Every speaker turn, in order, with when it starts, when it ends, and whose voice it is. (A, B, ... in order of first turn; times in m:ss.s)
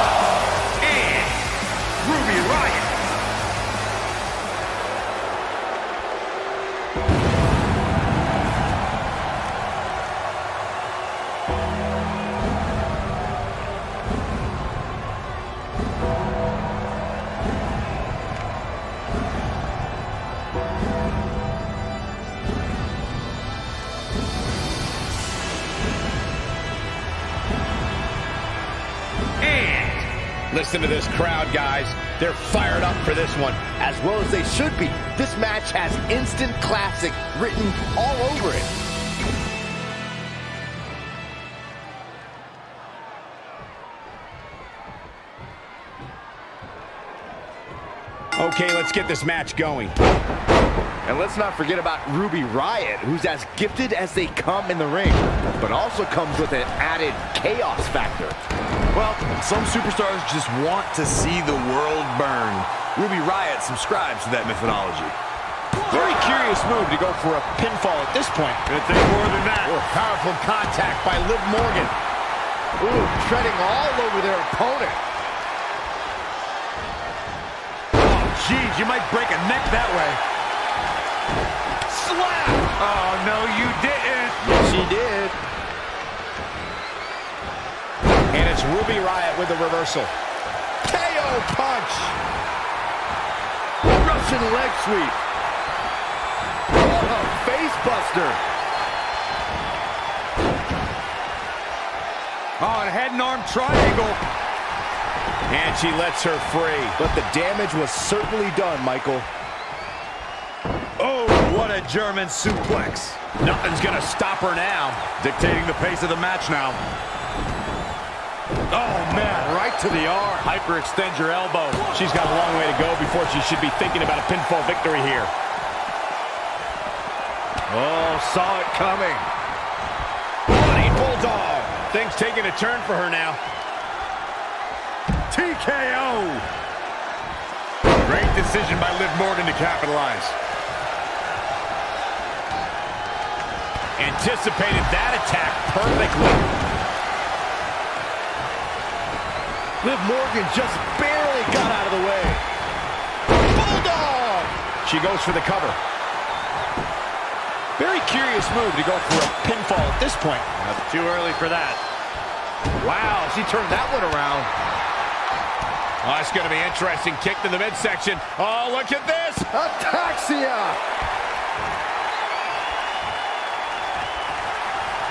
0:00.8-0:01.4 A
0:02.0-0:02.9 A
0:29.4-0:33.7 B
0:33.8-0:38.7 C
0:48.4-0:49.9 B
0:51.0-0:58.4 C
0:58.9-1:05.1 A
1:05.9-1:08.6 B
1:08.7-1:09.7 A
1:09.6-1:11.9 B
1:12.8-1:15.0 C
1:18.0-1:20.2 A
1:22.6-1:24.4 A
1:24.4-1:25.3 C
1:28.3-1:30.1 B
1:30.8-1:32.2 C
1:33.8-1:35.2 C
1:36.7-1:38.4 C
1:42.6-1:44.2 A
1:45.5-1:47.0 B
1:47.0-1:49.3 C
1:51.0-1:53.2 A
1:53.4-1:55.0 B
1:55.2-1:56.8 A
1:58.7-1:59.6 A
1:59.2-2:00.5 C
2:00.4-2:01.9 A
2:01.9-2:05.3 B
2:07.7-2:09.2 A
2:10.5-2:13.4 B
2:15.3-2:16.4 A
2:18.0-2:20.4 A
2:24.0-2:26.4 B
2:29.8-2:32.4 C
2:33.6-2:34.5 C
2:34.8-2:35.8 B
2:37.8-2:40.5 B
2:40.6-2:41.8 A
2:42.8-2:44.5 C
2:46.0-2:49.5 B
2:49.5-2:50.8 C